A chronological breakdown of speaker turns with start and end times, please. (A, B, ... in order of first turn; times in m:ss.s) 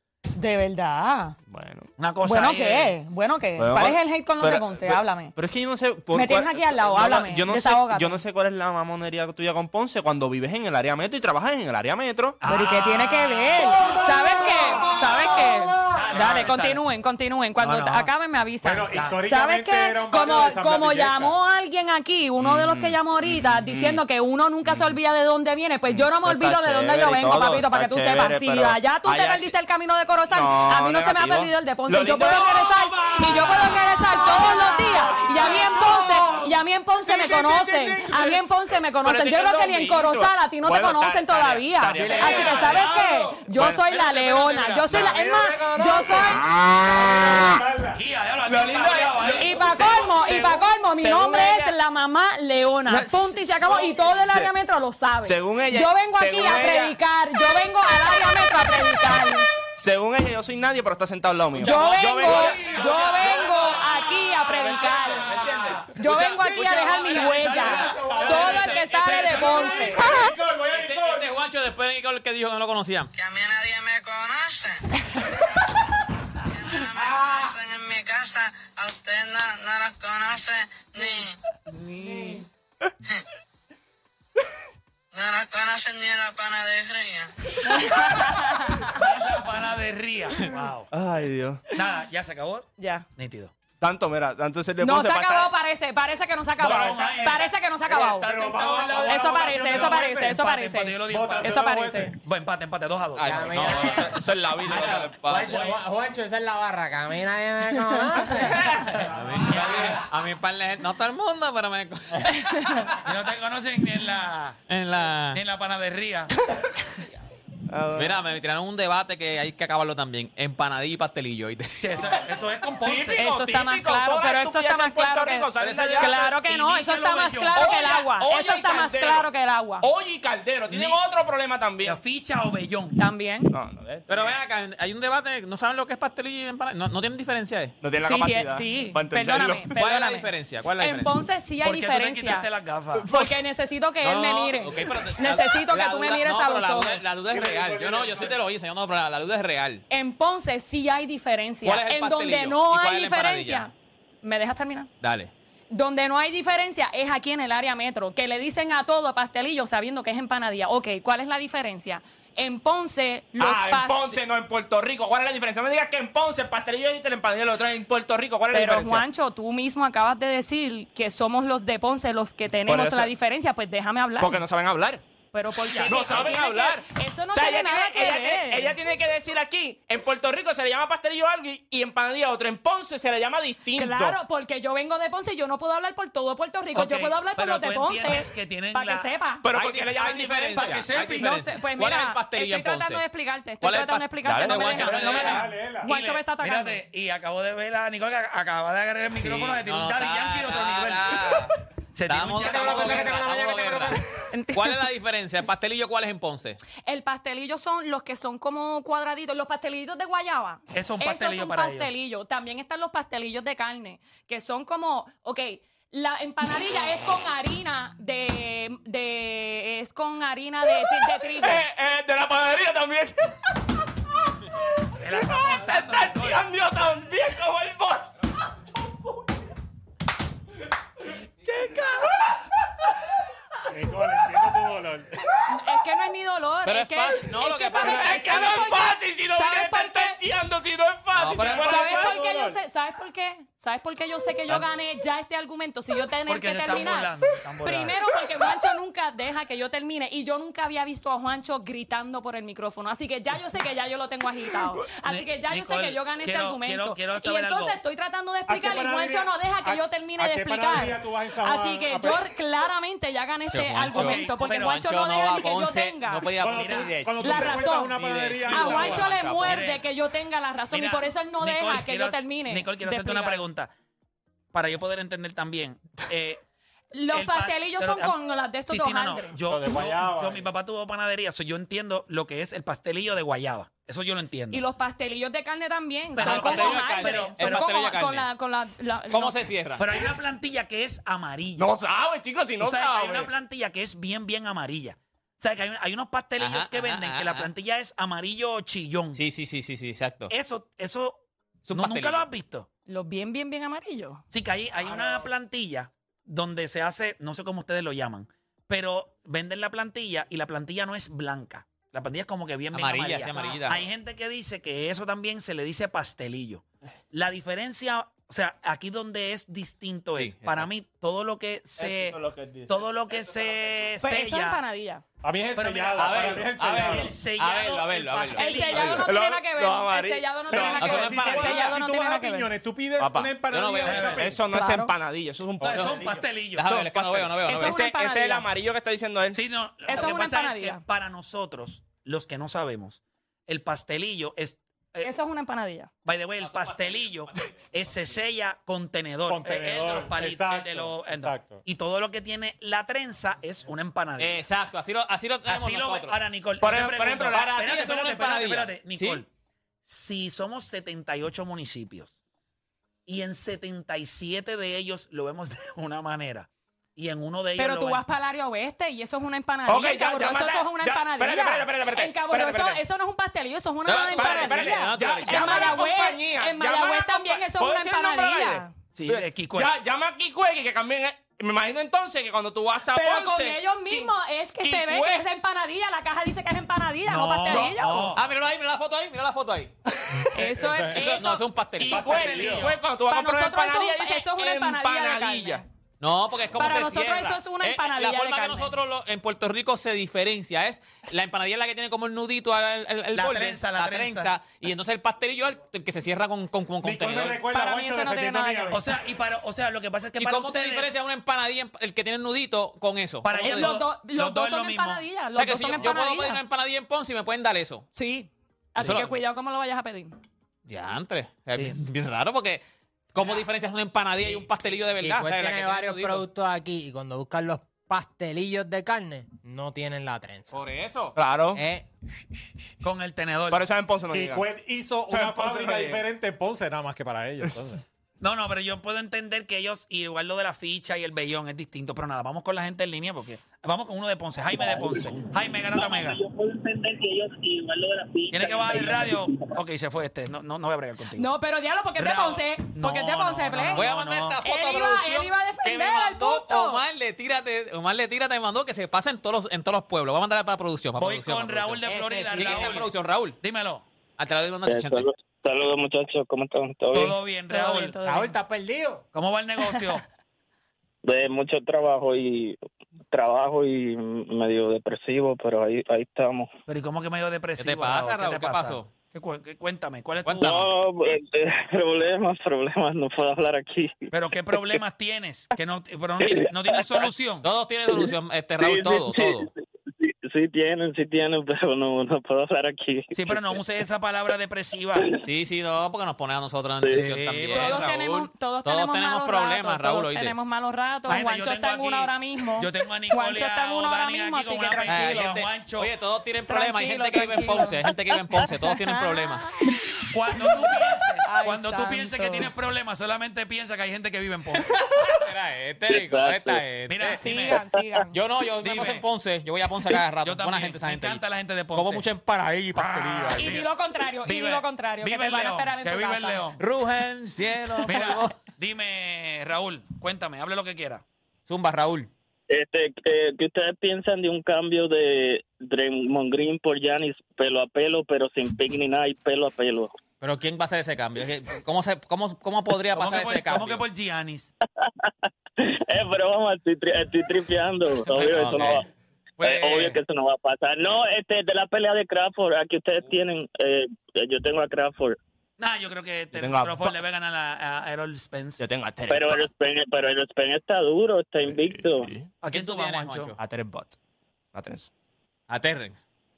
0:00.3-0:01.4 A
0:01.5-0:01.9 B
0:02.0-0:03.0 C
0:02.2-0:05.3 A
0:03.6-0:12.4 B
0:06.1-0:08.2 A
0:12.4-0:15.4 C
0:12.5-0:46.5 A
0:13.8-0:16.4 D
0:15.9-0:16.8 C
0:17.6-0:18.1 C
0:18.6-0:21.4 D
0:22.4-0:24.0 B
0:25.9-0:29.5 B
0:30.3-0:36.3 B
0:32.6-0:36.4 C
0:34.6-0:35.9 D
0:37.1-0:38.2 B
0:37.2-0:37.9 D
0:39.0-0:45.2 B
0:42.0-0:42.5 D
0:42.0-0:44.9 C
0:45.0-0:48.0 D
0:47.9-0:49.5 C
0:48.5-0:51.8 B
0:49.3-0:59.5 A
0:52.9-0:54.5 B
0:55.2-0:57.0 B
0:59.8-1:03.9 B
1:01.6-1:10.0 A
1:01.7-1:03.9 C
1:04.4-1:06.2 D
1:04.5-1:08.8 B
1:06.9-1:10.0 C
1:07.8-1:11.3 D
1:10.7-1:13.1 E
1:13.2-1:14.8 F
1:16.5-1:21.3 F
1:21.8-1:22.4 A
1:22.0-1:22.3 C
1:25.1-1:27.3 F
1:27.6-1:29.0 A
1:28.9-1:30.9 C
1:30.9-1:31.6 B
1:31.7-1:33.5 C
1:32.8-1:33.0 A
1:33.8-1:35.5 B
1:34.8-1:42.1 A
1:36.6-1:41.6 C
1:38.2-1:40.4 D
1:41.1-1:42.1 D
1:42.2-1:43.9 C
1:43.2-1:45.7 B
1:43.2-1:49.0 G
1:44.7-1:45.8 C
1:49.1-1:53.0 E
1:49.2-1:50.0 D
1:49.4-1:50.0 C
1:52.5-1:52.9 A
1:53.0-1:54.7 C
1:54.7-1:55.4 E
1:55.3-1:56.4 C
1:57.7-1:58.3 B
1:58.0-2:02.2 E
2:01.8-2:03.2 C
2:02.8-2:06.4 B
2:03.2-2:09.8 A
2:05.6-2:06.1 E
2:06.3-2:07.6 C
2:07.6-2:09.3 B
2:09.8-2:12.0 B
2:10.7-2:11.0 C
2:11.8-2:13.0 C
2:13.0-2:13.5 A
2:13.5-2:14.4 B
2:14.1-2:17.8 E
2:17.8-2:19.8 B
2:18.0-2:22.5 A
2:19.7-2:21.1 E
2:21.6-2:23.1 C
2:22.9-2:23.4 B
2:23.1-2:27.1 A
2:24.0-2:29.8 E
2:27.3-2:28.4 D
2:29.9-2:33.7 A
2:31.6-2:33.7 E
2:34.2-2:34.9 A
2:35.0-2:35.3 E
2:35.7-2:44.1 A
2:43.4-2:49.1 B
2:48.5-2:54.4 A
2:52.7-2:53.1 B
2:54.2-2:55.0 B
2:55.3-2:58.8 A
2:55.7-2:56.3 C
2:55.8-3:04.2 B
3:03.8-3:09.4 A
3:06.8-3:09.1 C
3:09.4-3:10.9 B
3:09.5-3:13.0 E
3:10.6-3:11.3 C
3:11.1-3:16.8 A
3:13.6-3:15.5 E
3:14.2-3:14.9 B
3:14.7-3:21.2 C
3:15.1-3:15.9 D
3:19.2-3:21.5 E
3:22.0-3:23.4 C
3:22.1-3:26.6 E
3:22.4-3:23.9 G
3:22.6-3:23.2 B
3:24.3-3:24.6 A
3:26.8-3:41.6 A
3:30.7-3:31.9 C
3:41.0-3:43.4 B
3:45.0-3:46.4 C
3:45.0-3:48.2 B
3:51.4-3:52.4 B
3:53.7-3:55.1 D
3:55.5-4:00.2 A
3:56.7-3:58.5 E
3:57.8-4:02.2 B
4:01.2-4:01.6 E
4:01.4-4:02.6 D
4:01.5-4:07.1 A
4:06.3-4:08.0 C
4:07.6-4:26.3 A
4:15.0-4:17.8 C
4:18.5-4:22.3 D
4:23.5-4:27.6 E
4:23.9-4:24.8 C
4:26.4-4:29.2 D
4:26.4-4:27.0 C
4:27.2-4:33.4 A
4:28.4-4:29.8 C
4:29.0-4:29.7 E
4:30.7-4:33.7 C
4:34.5-4:36.4 C
4:36.9-4:39.4 A
4:37.1-4:38.1 C
4:38.7-4:44.6 C
4:39.5-4:40.5 D
4:44.5-4:49.4 A
4:46.2-4:47.7 C
4:46.2-4:48.3 E
4:49.1-4:50.0 E
4:49.8-4:51.7 C
4:51.6-4:53.3 B
4:52.6-4:59.2 C
4:56.4-4:57.5 E
4:59.2-5:00.3 E
5:00.3-5:01.2 C
5:01.6-5:02.3 E
5:01.7-5:02.7 C
5:02.9-5:04.2 A
5:04.3-5:24.6 C
5:12.7-5:13.9 E
5:13.3-5:13.6 A
5:20.2-5:20.6 E
5:21.8-5:23.5 B
5:24.0-5:25.0 A
5:25.2-5:27.2 D
5:25.6-5:29.1 C
5:26.0-5:28.7 E
5:28.3-5:32.5 A
5:28.7-5:30.9 B
5:30.5-5:34.4 D
5:30.8-5:31.7 E
5:33.0-5:39.4 B
5:33.5-5:34.2 E
5:33.8-5:34.2 C
5:34.5-5:34.9 A
5:35.6-5:36.0 D
5:35.6-5:36.6 C
5:36.6-5:37.8 E
5:37.5-5:38.5 A
5:39.4-5:45.1 C
5:39.9-5:40.8 A
5:45.0-5:45.9 A
5:46.0-5:54.4 C
5:49.3-5:51.6 D
5:54.2-5:56.2 E
5:55.5-5:59.3 C
5:56.6-5:57.6 B
5:57.5-5:59.3 E
5:59.9-6:02.2 C
6:03.1-6:08.0 C
6:07.6-6:18.7 A
6:09.7-6:12.8 B
6:13.9-6:15.8 E
6:14.2-6:25.3 B
6:19.0-6:19.7 C
6:22.9-6:28.2 A
6:27.1-6:28.2 C
6:28.2-6:29.7 E
6:30.3-6:31.5 A
6:30.4-6:31.2 D
6:31.0-6:32.3 E
6:31.8-6:35.6 B
6:31.9-6:32.8 C
6:32.2-6:32.7 D
6:33.1-6:35.6 A
6:36.0-6:47.4 E
6:36.5-6:38.7 A
6:43.1-6:44.3 C
6:46.8-6:49.0 D
6:47.4-6:48.8 A
6:48.7-6:50.9 C
6:50.2-6:53.8 E
6:53.2-6:55.0 C
6:53.4-6:56.4 A
6:55.4-6:57.8 E
6:57.9-7:00.2 A
6:58.8-6:59.1 E
7:00.7-7:06.2 E
7:05.0-7:10.6 G
7:10.5-7:11.2 E
7:11.2-7:11.6 B
7:11.5-7:11.9 G
7:12.8-7:13.6 C
7:13.5-7:14.5 B
7:14.1-7:17.8 D
7:15.1-7:16.0 B
7:18.2-7:26.2 C
7:24.5-7:29.6 H
7:28.3-7:31.3 C
7:31.2-7:33.8 A
7:32.0-7:34.4 C
7:33.7-7:41.8 E
7:34.4-7:36.8 A
7:41.0-7:43.8 C
7:41.8-7:42.7 G
7:42.4-7:43.4 E
7:44.2-7:45.1 E
7:44.6-7:47.2 H
7:46.9-7:47.9 C
7:47.5-7:48.4 A
7:48.0-7:49.0 G
7:49.1-7:50.0 C
7:51.0-7:52.6 H
7:53.1-7:56.5 H
7:56.7-8:00.7 C
7:57.6-7:58.9 E
8:00.2-8:00.7 E
8:00.3-8:04.8 H
8:04.1-8:07.5 C
8:06.2-8:07.1 H
8:07.4-8:09.5 E
8:07.9-8:13.6 H
8:13.1-8:15.1 C
8:15.2-8:20.4 E
8:16.8-8:17.1 H
8:16.9-8:17.8 C
8:17.6-8:25.3 A
8:21.1-8:25.9 C
8:24.9-8:29.5 E
8:26.5-8:27.8 A
8:28.9-8:29.7 A
8:30.1-8:34.6 C
8:31.2-8:32.5 A
8:34.7-8:37.2 E
8:35.9-8:36.6 H
8:36.9-8:37.6 C
8:37.2-8:38.1 A
8:38.1-8:41.2 E
8:38.6-8:39.0 C
8:40.2-8:42.0 C
8:41.7-8:43.6 E
8:42.8-8:46.6 C
8:43.4-8:46.4 A
8:46.6-8:48.4 E
8:47.9-8:51.0 C
8:51.5-8:52.1 E
8:52.5-8:59.9 H
9:00.2-9:03.8 E
9:02.9-9:04.5 C
9:04.8-9:08.9 H
9:08.1-9:08.8 C
9:08.5-9:08.7 B
9:09.4-9:10.0 C
9:09.4-9:15.2 H
9:15.6-9:18.6 C
9:16.3-9:17.0 B
9:18.6-9:19.5 B
9:19.1-9:22.1 H
9:21.5-9:22.3 B
9:22.4-9:23.4 C
9:22.4-9:23.4 E
9:23.4-9:24.0 B
9:24.5-9:24.9 B
9:25.5-9:26.0 E